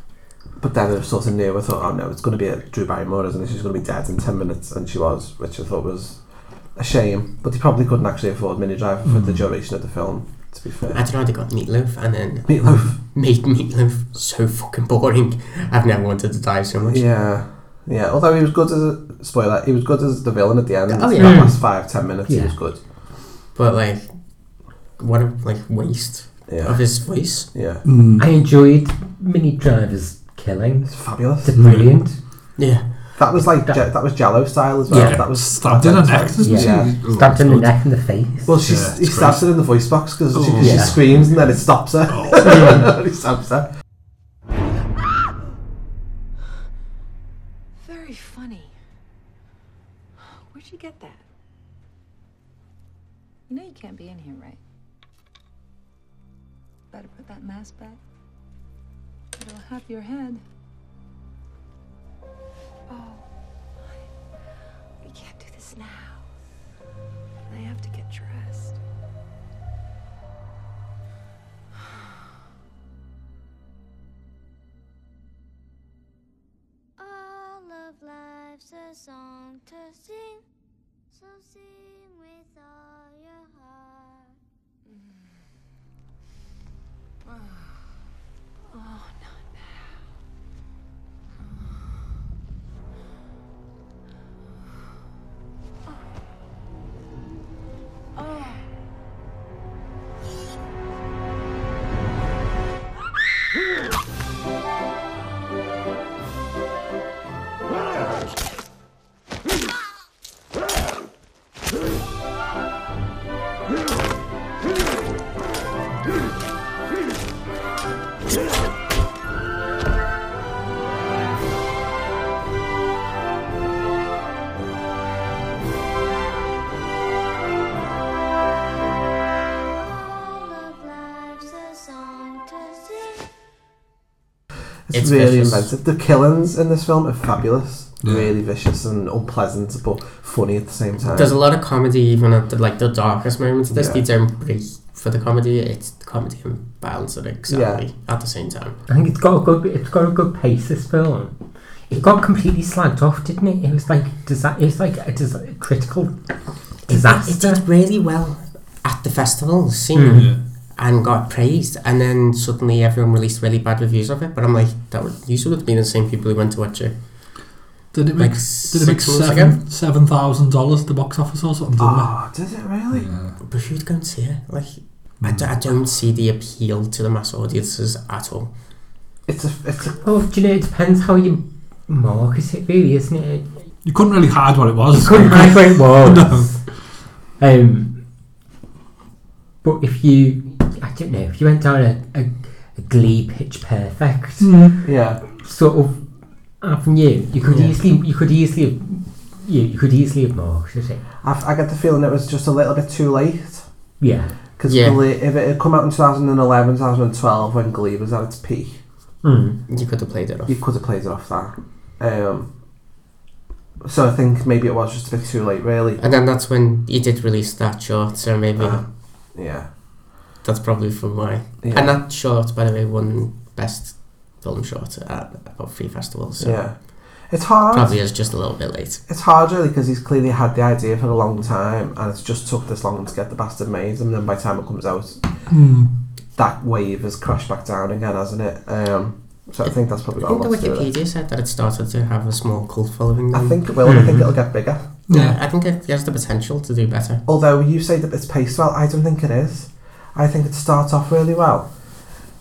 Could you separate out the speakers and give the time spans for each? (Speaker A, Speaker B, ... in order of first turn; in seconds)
Speaker A: 0.6-11.0, 12.5-12.9, 16.9-22.8, 26.5-27.8, 30.9-31.6, 33.1-37.0, 38.5-43.7, 134.9-141.3, 143.7-144.0, 147.5-147.8, 171.8-173.1, 179.3-180.0, 194.8-195.2, 201.2-203.7, 204.6-208.8, 210.5-212.5, 213.8-216.0, 218.6-219.7, 221.6-222.0, 226.4-228.0, 229.1-235.3, 236.3-240.9, 243.3-244.8, 247.2-251.7
Speaker B: 9.1-9.4, 27.8-28.3, 31.6-31.9, 34.9-37.7, 38.6-39.5, 40.3-41.1, 42.1-42.5, 138.0-138.3, 160.1-160.4, 167.9-172.1, 172.9-173.3, 175.2-175.5, 183.8-186.5, 194.4-194.8, 235.5-235.9, 245.1-245.4
Speaker C: 10.9-17.1, 20.9-21.5, 23.5-27.5, 32.6-33.0, 134.9-135.7, 141.1-148.8, 156.9-167.3, 168.2-169.6, 173.4-178.5, 197.4-197.7, 204.7-205.0, 209.7-210.6, 216.0-218.8, 220.4-227.0, 227.7-229.0, 239.6-243.6, 245.1-247.2
Speaker D: 21.2-22.5, 28.2-32.1, 34.9-35.2, 36.4-38.5, 40.6-40.9, 42.4-42.8, 148.9-151.3, 151.9-156.1, 156.9-157.6, 159.9-160.3, 180.0-183.5, 184.9-186.6, 187.4-187.9, 189.6-194.8, 195.4-196.0, 196.6-201.0, 204.0-204.3, 209.2-209.6, 243.8-244.3
Speaker E: 47.8-48.7, 50.5-51.2, 53.5-54.6, 56.9-58.0, 59.4-60.4, 62.9-63.2, 65.0-66.2, 67.5-68.8, 88.7-89.9, 98.2-98.6
Speaker F: 77.0-80.4, 81.1-84.4, 129.7-133.3